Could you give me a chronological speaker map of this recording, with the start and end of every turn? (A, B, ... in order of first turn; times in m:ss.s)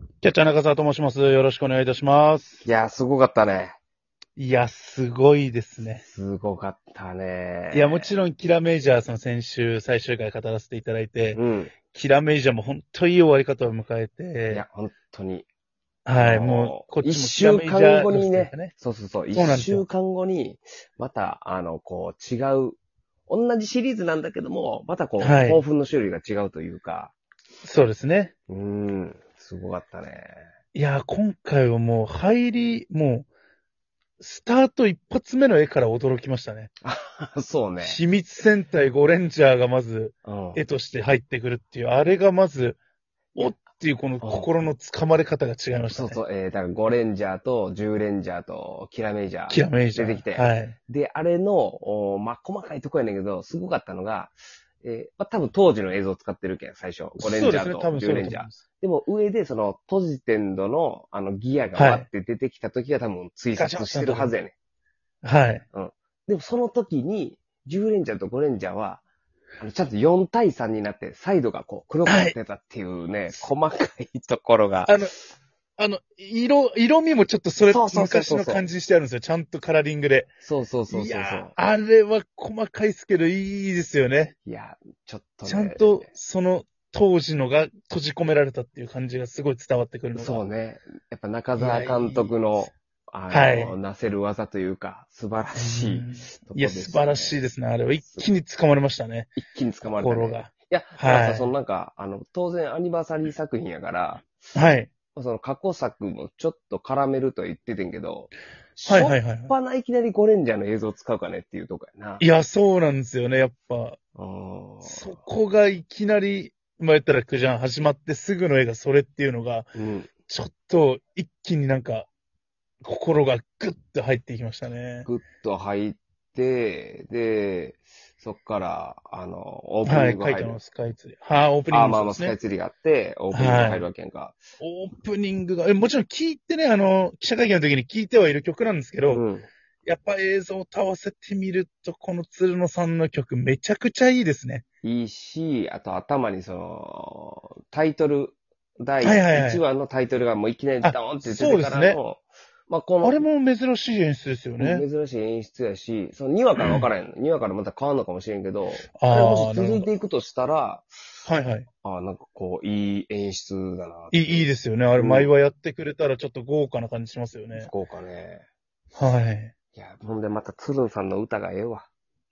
0:00.2-0:02.6 A
0:02.6-0:03.8 B
0:04.4-0:06.0 A
0:06.0-0:08.1 B
0:07.7-0:11.4 A
0:11.3-0:11.8 B
0:11.9-0:14.6 A
0:14.5-0:15.5 B
0:16.1-0:18.7 A
0:16.2-0:27.2 B
0:19.3-0:19.8 A
0:25.2-0:25.6 A
0:27.6-0:28.3 A
0:28.5-0:30.4 B
0:30.7-0:33.3 A
0:34.2-0:36.7 A
0:36.8-0:38.0 B
0:37.8-0:42.8 A
0:40.2-0:40.6 B
0:43.4-0:46.2 A
0:44.2-0:44.5 B
0:45.9-1:04.5 B
0:49.5-0:50.8 A
0:57.2-0:58.6 A
1:01.8-1:02.1 A
1:03.5-1:04.4 A
1:05.2-1:05.6 A
1:05.7-1:09.0 B
1:09.6-1:15.0 B
1:12.1-1:12.4 A
1:14.8-1:15.1 A
1:15.8-1:20.3 A
1:17.7-1:18.7 B
1:20.4-1:21.5 B
1:20.9-1:24.3 A
1:24.4-1:26.1 B
1:25.5-1:30.4 A
1:30.1-1:37.4 B
1:31.6-1:32.3 A
1:33.3-1:33.8 A
1:35.6-1:39.3 A
1:38.0-1:38.3 B
1:39.4-1:44.2 B
1:39.9-1:41.5 A
1:44.6-1:44.9 A
1:45.1-1:52.2 B
1:48.9-1:49.5 A
1:52.2-1:54.0 A
1:54.2-1:55.2 B
1:54.8-1:59.7 A
1:59.8-2:00.1 B
2:00.3-2:02.1 A
2:02.8-2:05.1 A
2:05.0-2:10.6 B
2:09.8-2:12.4 A
2:11.7-2:14.4 B
2:13.3-2:13.9 A
2:14.6-2:19.2 A
2:19.1-2:19.5 B
2:19.8-2:24.6 A
2:24.8-2:33.2 B
2:29.0-2:29.6 A
2:30.8-2:32.0 A
2:33.0-2:34.9 A
2:34.6-2:40.9 B
2:36.6-2:36.9 A
2:39.0-2:39.9 A
2:41.2-2:41.7 A
2:41.8-2:45.3 B
2:44.1-2:47.7 A
2:47.5-2:48.5 B
2:49.0-2:49.5 A
2:49.8-2:51.9 B